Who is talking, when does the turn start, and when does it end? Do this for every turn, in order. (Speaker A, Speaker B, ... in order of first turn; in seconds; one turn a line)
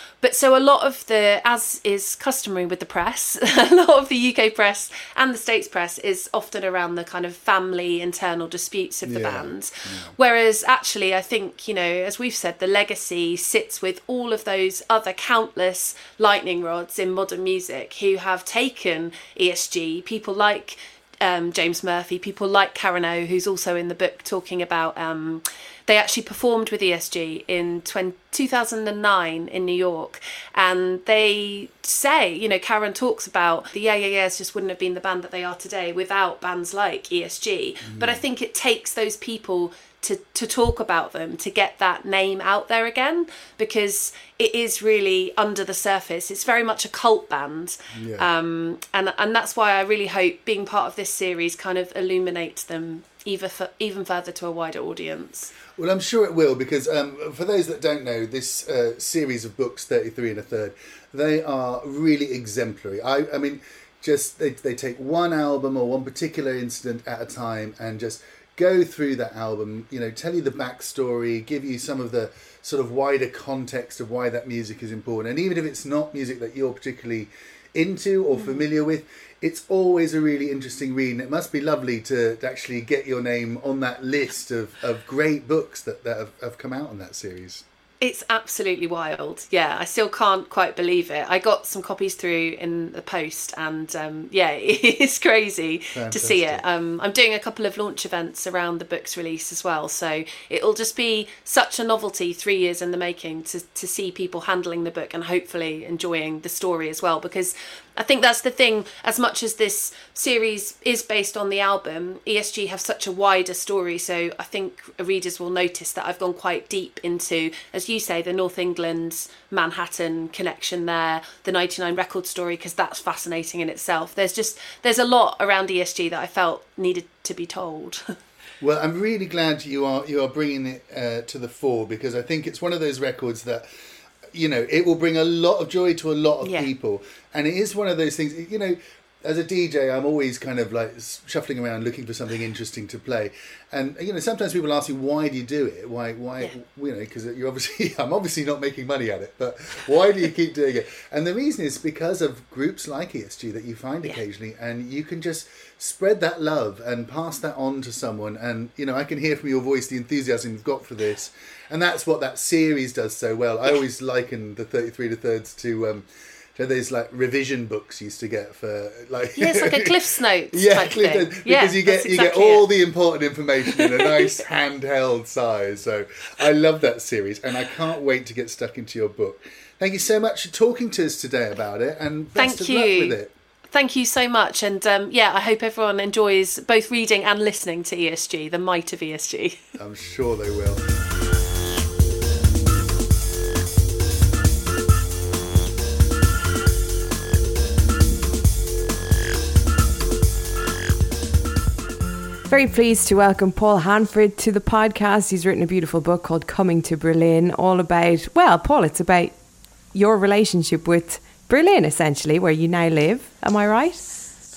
Speaker A: 0.2-55.5
Speaker B: 9.1-10.1
Speaker B: 37.8-38.2
Speaker B: 47.9-48.3
Speaker B: 55.8-87.6
Speaker A: 88.0-128.1
Speaker B: 95.9-96.6
Speaker B: 128.6-133.7
Speaker B: 134.3-170.0
Speaker A: 136.4-136.7
Speaker A: 169.4-172.7
Speaker B: 170.5-183.3
Speaker A: 173.7-174.3
Speaker A: 182.4-183.2
Speaker A: 183.7-189.6
Speaker B: 189.8-190.8
Speaker C: 202.5-209.3
Speaker C: 209.9-214.2